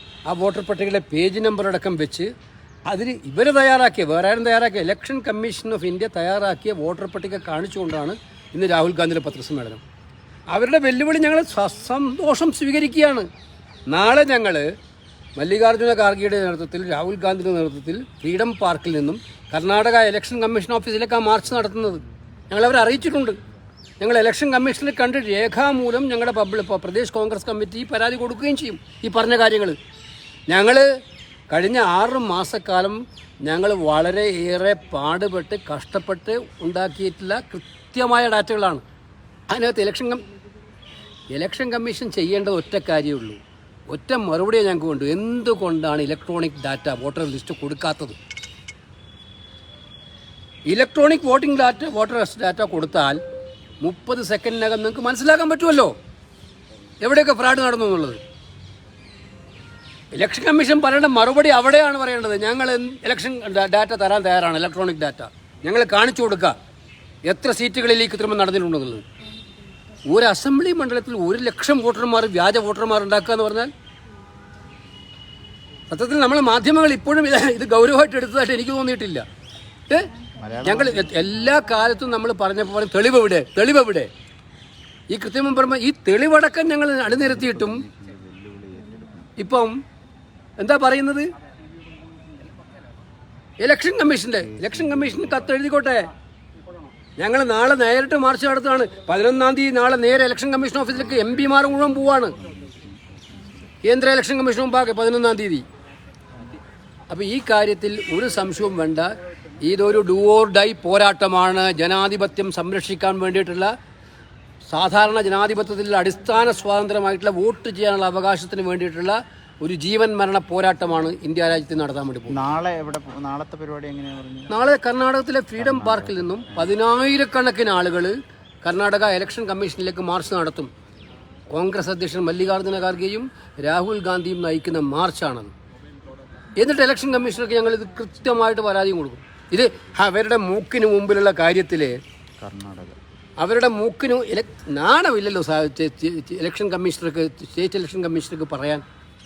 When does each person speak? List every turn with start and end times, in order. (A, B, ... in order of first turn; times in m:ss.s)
0:00.3-0:02.3 A
0:02.9-0:09.8 A
0:10.5-0:13.3 A
0:13.9-0:14.7 A
0:15.4-0:23.4 A
0:24.0-0:29.8 A
0:30.5-0:30.9 A
0:31.5-0:38.8 A
0:39.5-0:40.3 A
0:41.3-0:48.2 A
0:50.7-0:53.2 A
0:53.8-0:55.9 A
0:57.0-0:58.2 A
1:00.1-1:06.6 A
1:07.2-1:09.1 A
1:10.1-1:13.7 A
1:15.9-1:19.2 A
1:20.4-1:21.2 B
1:20.6-1:24.1 A
1:25.1-1:27.8 A
1:27.2-1:29.3 B
1:29.4-1:29.8 A
1:30.6-1:31.3 A
1:33.6-1:36.1 A
1:34.5-1:35.5 B
1:37.2-1:42.4 A
1:42.4-1:43.6 B
1:43.8-1:45.6 A
1:47.1-1:53.7 A
1:54.7-2:02.4 A
2:02.3-2:04.5 B
2:04.5-2:10.7 A
2:05.6-2:06.7 B
2:11.5-2:15.5 A
2:16.6-2:22.0 A
2:22.4-2:23.0 B
2:23.4-2:28.8 A